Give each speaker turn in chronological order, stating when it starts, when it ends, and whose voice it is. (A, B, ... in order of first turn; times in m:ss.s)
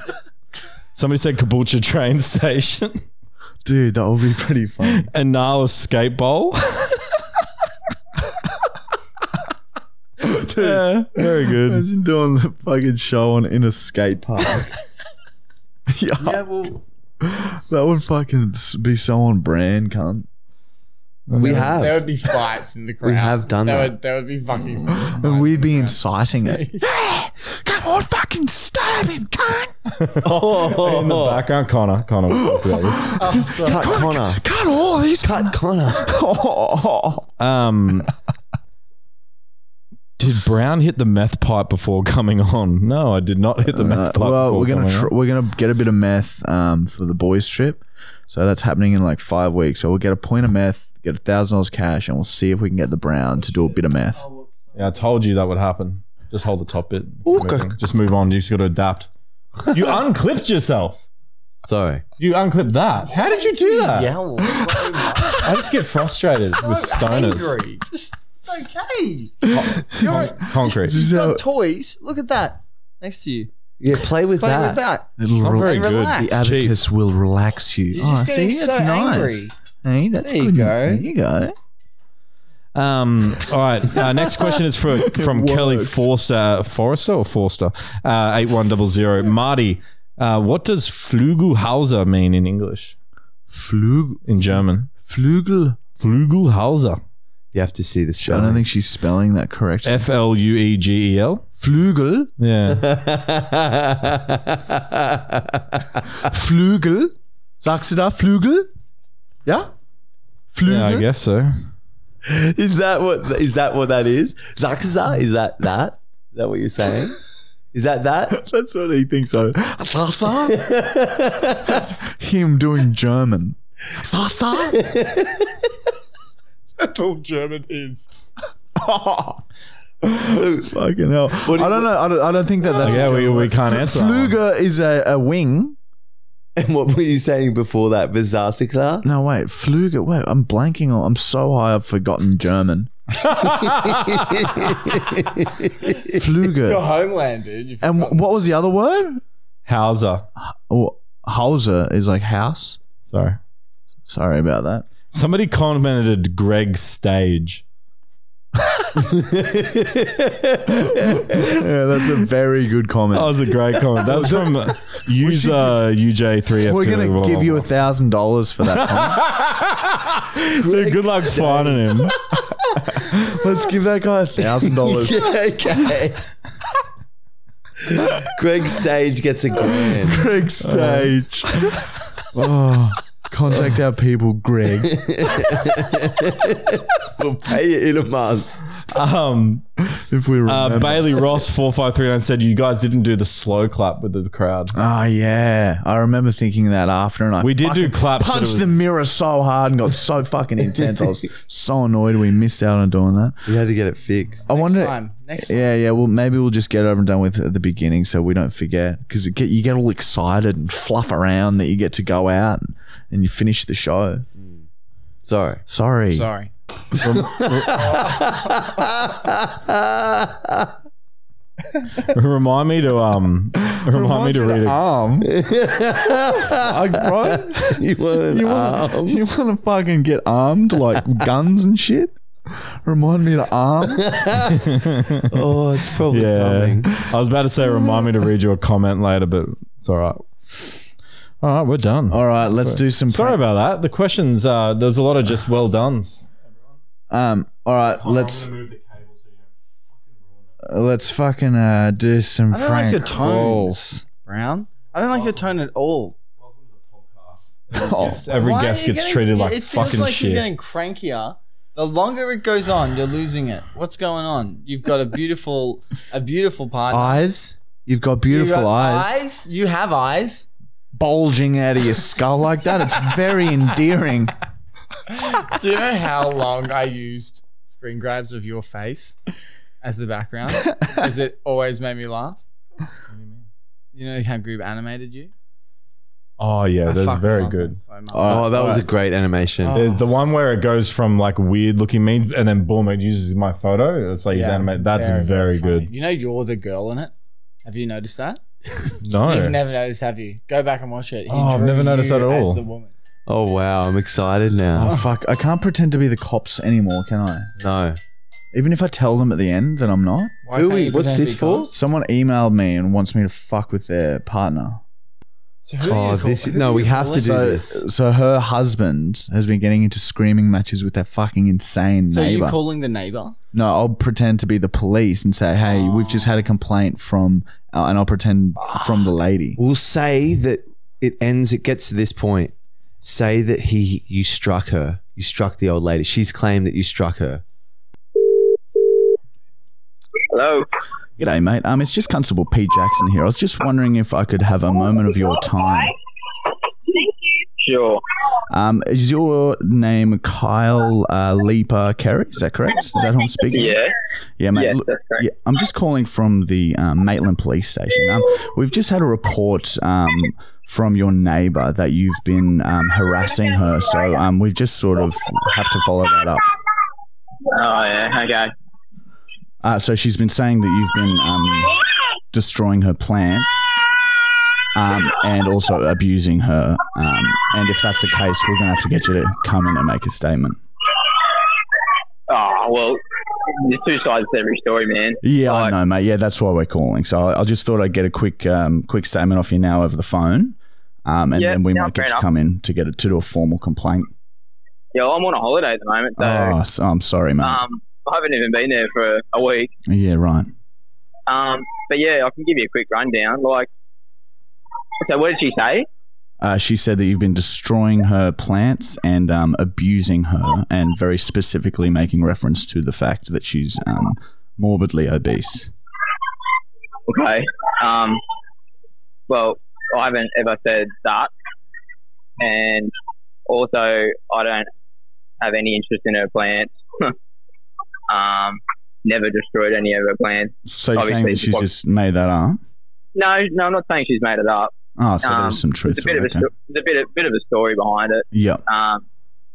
0:01.0-0:03.0 A
0:03.6-0:05.1 B
0:04.9-0:07.0 A
0:10.2-0:14.7 B
0:10.4-0:11.9 A
0:15.9-0:20.3 B
0:16.2-0:16.7 C
0:21.3-0:21.8 A
0:21.4-0:22.0 D
0:21.6-0:26.8 C
0:23.0-0:24.0 D
0:25.0-0:29.8 B
0:29.9-0:33.2 A
0:30.2-0:31.4 D
0:32.3-0:37.3 B
0:33.2-0:34.0 C
0:33.6-0:34.4 D
0:35.2-0:36.2 D
0:37.4-0:38.1 A
0:40.2-0:45.1 A
0:43.7-0:54.3 B
0:54.2-0:54.5 C
0:54.7-0:59.1 A
0:57.2-0:57.7 D
0:59.7-1:01.0 A
1:01.6-1:02.0 D
1:02.2-1:04.1 A
1:03.1-1:05.7 C
1:05.4-1:07.6 A
1:06.6-1:13.5 C
1:09.5-1:11.4 B
1:09.5-1:11.0 A
1:13.8-1:14.8 D
1:14.4-1:16.4 C
1:15.2-1:21.6 B
1:15.4-1:16.8 A
1:17.9-1:19.5 C
1:20.2-1:21.0 C
1:22.8-1:33.0 A
1:25.0-1:26.1 B
1:33.5-1:35.8 B
1:34.3-1:34.9 A
1:36.0-1:37.0 A
1:37.5-1:38.6 D
1:38.2-1:40.0 B
1:39.8-1:41.5 A
1:41.6-1:42.3 B
1:42.4-1:42.8 A
1:42.7-1:46.3 D
1:46.2-1:48.7 B
1:49.4-1:49.7 B
1:50.5-1:51.1 B
1:50.6-1:51.6 A
1:52.2-1:57.2 D
1:57.7-1:58.4 D
1:58.3-2:00.6 B
2:00.5-2:01.8 D
2:01.6-2:05.0 B
2:04.8-2:05.6 D
2:06.8-2:08.1 C
2:08.8-2:09.4 B
2:10.0-2:15.8 B
2:10.3-2:10.8 D
2:11.4-2:11.9 D
2:12.8-2:14.4 A
2:16.6-2:19.1 D
2:19.0-2:22.9 B
2:23.3-2:26.2 D
2:23.3-2:24.3 A
2:26.1-2:26.8 B
2:26.5-2:28.2 C
2:27.8-2:29.2 B
2:29.7-2:30.3 A
2:30.4-2:32.8 B
2:33.1-2:33.4 A
2:34.1-2:34.9 B
2:35.1-2:37.6 A
2:39.0-2:41.5 D
2:41.3-2:45.8 B
2:43.1-2:47.7 A
2:46.6-2:49.2 B
2:48.7-2:52.2 A
2:50.5-2:52.1 D
2:53.0-2:55.3 B
2:54.6-2:56.2 D
2:57.9-3:00.3 D
3:00.0-3:01.8 B
3:00.6-3:01.1 A
3:02.3-3:05.6 B
3:04.8-3:08.6 D
3:08.9-3:09.9 A
3:10.0-3:11.4 B
3:10.5-3:14.8 A
3:14.7-3:23.4 B
3:17.4-3:18.7 A
3:23.5-3:24.4 D
3:24.5-3:25.6 C
3:24.5-3:34.3 B
3:34.4-3:34.7 D
3:35.2-3:35.6 D
3:35.7-3:36.3 B
3:36.1-3:36.5 C
3:36.9-3:40.7 D
3:37.0-3:38.0 A
3:42.0-3:44.8 A
3:43.7-3:45.3 B
3:45.2-3:49.2 D
3:46.4-3:54.4 B
3:53.9-3:54.7 D
3:54.7-3:55.4 A
3:55.3-3:56.9 D
3:56.1-4:00.8 A
4:01.4-4:06.7 A
4:02.1-4:03.4 B
4:07.1-4:08.5 B
4:08.0-4:10.5 A
4:10.6-4:13.7 B
4:12.5-4:16.2 C
4:16.4-4:20.5 A
4:17.7-4:18.3 B
4:18.3-4:27.2 C
4:26.9-4:29.2 B
4:28.3-4:30.5 C
4:30.9-4:34.3 B
4:35.1-4:39.2 C
4:39.8-4:42.4 C
4:43.1-4:43.4 A
4:44.0-4:45.3 C
4:46.4-4:47.8 A
4:46.9-4:48.5 C
4:48.1-4:48.8 B
4:48.2-4:49.8 D
4:49.6-4:50.1 C
4:49.7-4:55.9 A
4:54.3-4:57.1 C
4:57.6-4:58.4 C
4:59.0-4:59.6 A
4:59.2-5:02.9 C
5:01.3-5:02.6 A
5:03.3-5:05.0 D
5:04.8-5:07.5 B
5:07.6-5:08.0 D
5:08.5-5:10.4 B
5:10.5-5:11.7 C
5:10.5-5:11.8 D
5:11.7-5:14.8 B
5:15.6-5:17.4 C
5:15.8-5:17.8 D
5:17.2-5:22.6 B
5:22.1-5:23.4 C
5:23.5-5:29.6 B
5:25.7-5:26.4 C
5:29.6-5:37.4 D
5:40.3-5:40.7 E
5:41.2-5:45.9 B
5:47.6-5:48.0 E
5:48.5-5:53.8 B
5:53.5-5:53.9 E
5:54.4-6:06.5 B
5:54.5-5:55.3 E
6:07.5-6:08.5 E
6:09.6-6:11.7 B
6:12.3-6:13.9 B
6:14.8-6:20.6 B
6:22.3-6:23.0 E
6:23.6-6:25.8 E
6:25.2-6:34.1 B
6:31.4-6:32.2 E
6:34.9-6:36.6 E
6:36.2-6:37.6 B
6:37.4-6:39.7 E
6:39.9-6:40.5 B
6:41.3-6:43.7 E
6:45.0-6:45.9 E
6:46.4-6:55.7 B
6:57.1-6:58.2 E
6:59.3-7:01.3 E
7:02.4-7:02.9 E
7:03.5-7:04.7 E
7:05.4-7:07.1 E
7:08.1-7:11.7 E
7:10.7-7:12.6 B
7:13.2-7:19.0 E
7:15.0-7:16.5 B
7:18.3-7:18.6 B